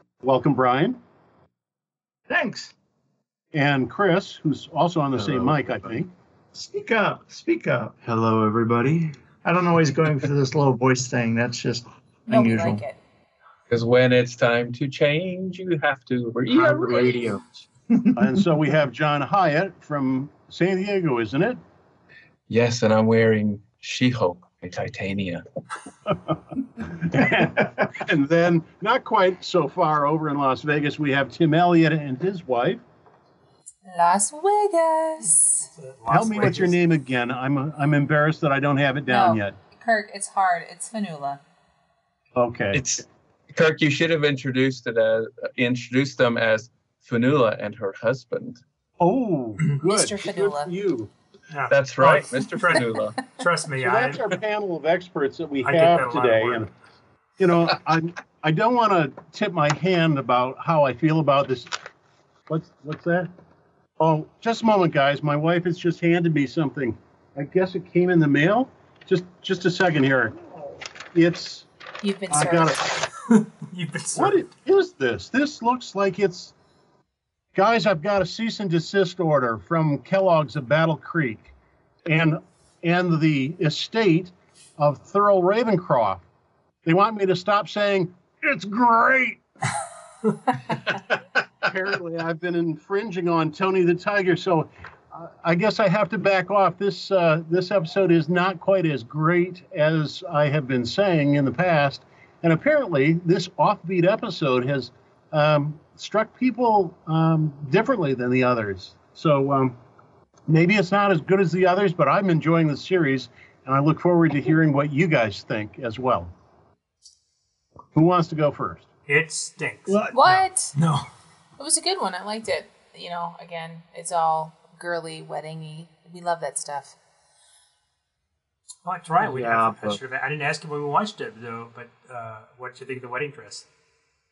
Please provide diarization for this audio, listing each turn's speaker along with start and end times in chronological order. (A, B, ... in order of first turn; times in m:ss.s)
0:00.2-0:01.0 A
0:02.3-0:02.7 B
0:03.5-0:06.1 A
0:06.5-0:07.9 B
0:08.0-0:09.1 C
0:09.4-0:12.8 B
0:12.3-0:13.0 D
0:13.7-0:17.5 E
0:16.5-0:17.3 B
0:17.9-0:18.4 B
0:18.2-0:21.6 A
0:22.5-0:25.4 E
0:26.1-0:32.8 A
0:33.8-0:35.7 D
0:35.7-0:36.8 F
0:36.1-0:39.6 A
0:39.1-0:41.4 D
0:42.4-0:42.8 A
0:42.7-0:48.6 E
0:49.0-0:51.1 A
0:49.8-0:50.7 D
0:51.5-0:54.2 F
0:51.7-0:53.2 E
0:53.8-0:56.7 A
0:55.6-0:56.7 F
0:57.4-1:01.7 A
1:02.5-1:03.3 A
1:04.0-1:10.4 A
1:11.1-1:11.7 A
1:12.0-1:13.1 D
1:12.3-1:12.8 A
1:13.3-1:14.4 F
1:14.2-1:16.5 A
1:17.6-1:21.5 A
1:22.1-1:26.2 A
1:26.8-1:28.1 A
1:28.4-1:29.4 B
1:31.6-1:49.8 A
1:50.5-1:56.3 A
1:58.0-1:58.9 A
1:59.1-2:01.1 F
1:59.9-2:00.2 B
2:00.1-2:00.7 D
2:01.6-2:07.0 D
2:08.8-2:13.7 F
2:09.2-2:10.0 C